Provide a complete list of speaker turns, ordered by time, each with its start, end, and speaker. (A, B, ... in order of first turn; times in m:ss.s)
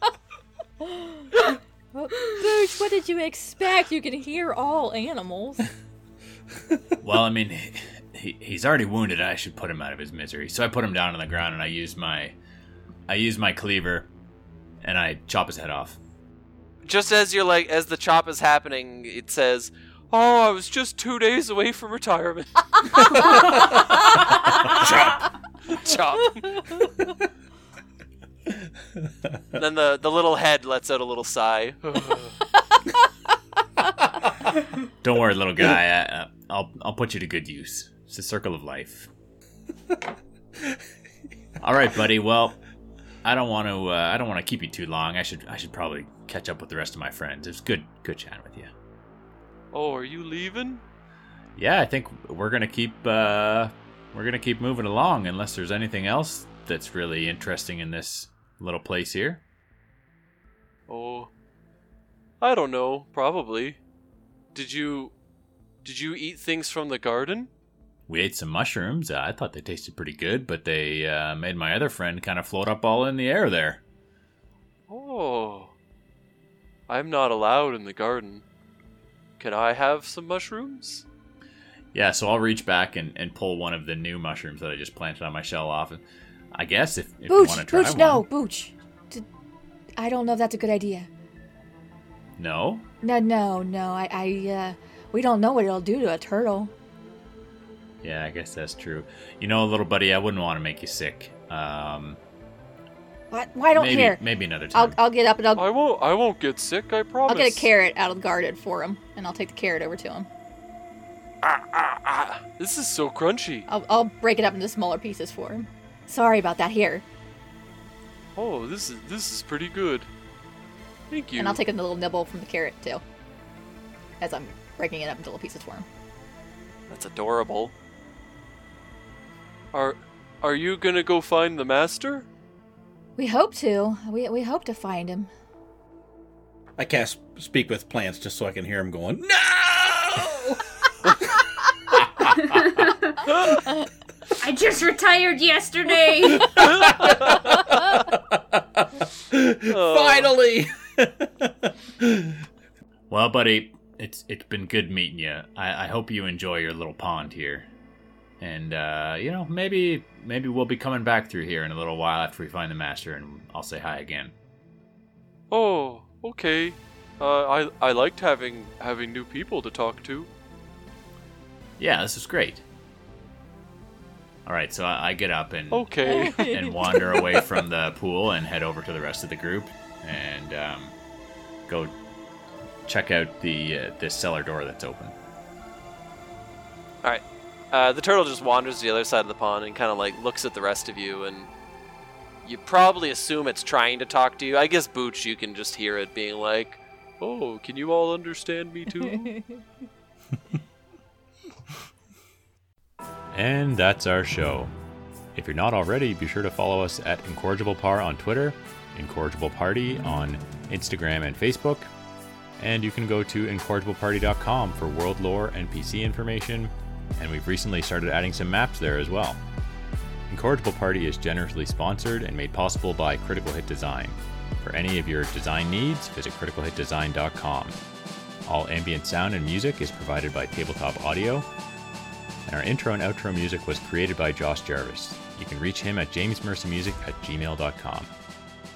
0:00.8-0:01.1 A
0:01.9-0:05.6 A
0:07.0-0:12.4 B
0:13.1-0:14.1 B
0:14.8-0:16.0 B
0:16.8-0:23.8 C
0:23.0-0:23.8 D
0:24.8-0:25.2 D
0:24.8-0:25.1 C
0:25.7-0:26.7 C
0:29.5-0:32.4 C
0:35.0-0:39.1 B
0:41.6-0:42.6 B
0:43.2-0:48.7 B
0:49.7-0:50.8 C
0:51.6-0:59.4 B
1:00.9-1:01.3 C
1:02.4-1:03.8 C
1:04.5-1:05.1 C
1:05.8-1:07.5 C
1:08.1-1:13.8 B
1:14.9-1:15.7 C
1:16.9-1:18.4 C
1:19.4-1:21.0 C
1:21.9-1:26.0 B
1:26.5-1:28.2 B
1:27.3-1:29.2 A
1:30.0-1:31.1 A
1:32.4-1:32.9 B
1:33.0-1:36.7 A
1:38.0-1:42.2 B
1:43.3-1:44.2 A
1:43.7-1:45.0 B
1:44.7-1:45.7 A
1:45.6-1:47.7 C
1:47.3-1:50.3 A
1:51.4-1:53.6 C
1:53.7-1:57.0 A
1:58.4-2:00.1 C
2:01.1-2:01.6 C
2:01.4-2:03.0 A
2:04.2-2:05.9 A
2:06.9-2:07.7 C
2:09.7-2:12.3 C
2:13.2-2:15.3 A
2:16.8-2:20.6 D
2:21.2-2:22.4 D
2:22.4-2:23.2 E
2:24.4-2:26.5 E
2:26.4-2:28.8 D
2:29.3-2:32.4 D
2:29.7-2:30.3 C
2:33.1-2:37.7 B
2:38.4-2:44.3 B
2:45.5-2:50.3 C
2:51.8-2:52.6 B
2:54.4-3:00.9 B
2:55.7-2:57.0 C
2:56.0-2:56.7 A
3:01.7-3:01.9 B
3:02.8-3:05.1 B
3:07.0-3:11.5 C
3:12.4-3:19.3 C
3:23.3-3:24.7 B
3:25.3-3:31.9 B
3:32.6-3:39.4 B
3:40.3-3:47.8 B
3:48.4-3:51.5 B
3:52.5-3:58.1 B